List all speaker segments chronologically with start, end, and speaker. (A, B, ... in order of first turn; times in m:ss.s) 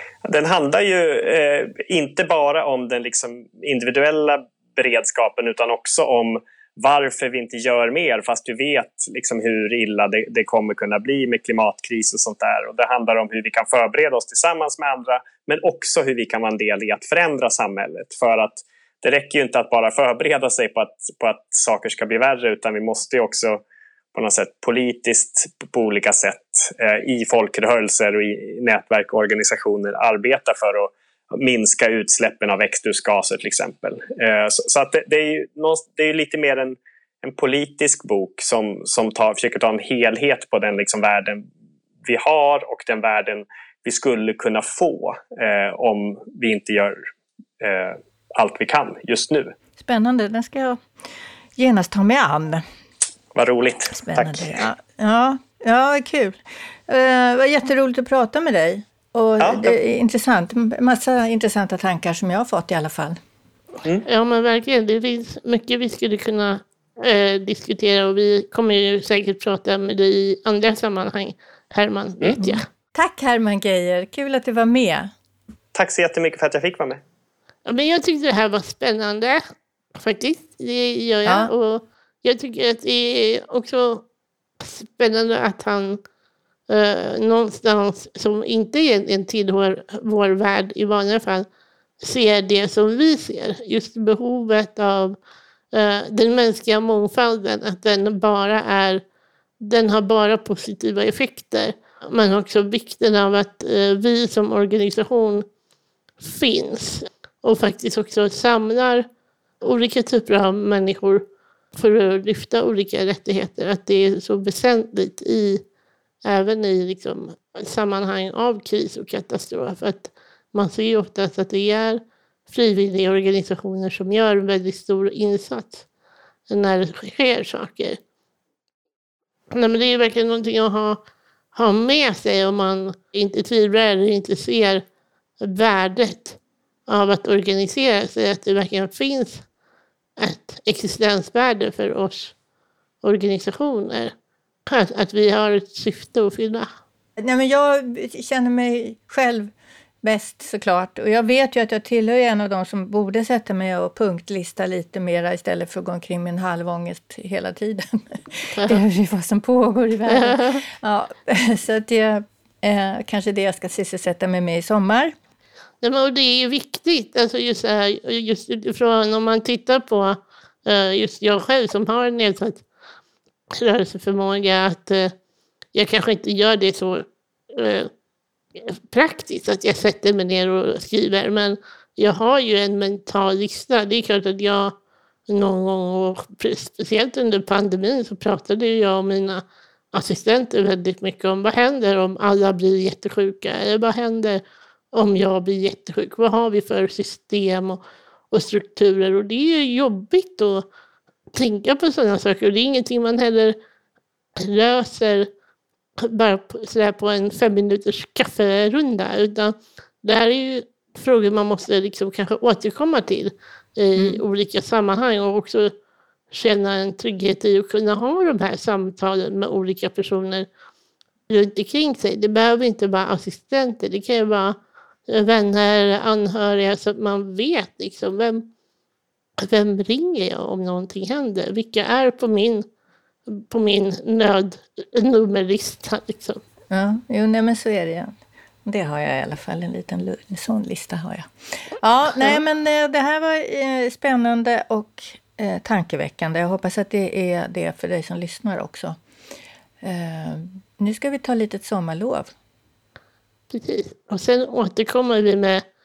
0:00.2-0:23.6 A
0:24.1-0:41.5 A
0:42.0-0:47.0 A
0:47.6-0:49.5 A
0:49.8-0:50.8 B
0:51.6-0:52.6 B
0:53.3-0:54.5 A
0:54.0-1:03.2 B
0:59.4-0:59.7 A
1:04.1-1:12.6 C
1:12.4-1:15.1 B
1:15.7-1:17.0 A
1:17.7-1:19.4 C
1:20.0-1:24.0 C
1:21.3-1:21.5 B
1:24.6-1:26.0 C
1:26.7-1:31.5 C
1:32.0-1:35.2 C
1:35.7-1:39.0 C
1:39.6-1:45.4 C
1:46.2-1:49.1 C
1:49.6-1:55.6 C
1:56.2-2:05.8 C
2:06.5-2:08.0 C
2:09.5-2:11.0 C
2:11.5-2:14.8 C
2:15.4-2:19.4 C
2:20.2-2:22.3 C
2:23.0-2:24.1 C
2:24.7-2:26.7 C
2:27.2-2:45.2 B
2:40.1-2:40.6 C
2:45.8-2:52.6 C
2:53.5-2:55.1 C
2:55.7-2:57.9 C
2:58.6-3:04.7 C
3:05.3-3:14.4 C
3:14.9-3:17.8 C
3:18.3-3:20.6 C
3:21.3-3:23.6 C
3:24.4-3:25.3 C
3:26.0-3:35.7 C
3:36.3-3:40.5 C
3:41.3-3:44.6 C
3:45.1-3:48.5 C
3:49.4-3:52.7 C
3:53.3-3:56.4 C
3:56.7-3:58.1 B
3:58.6-4:09.0 B
4:09.8-4:12.3 B
4:13.5-4:15.6 C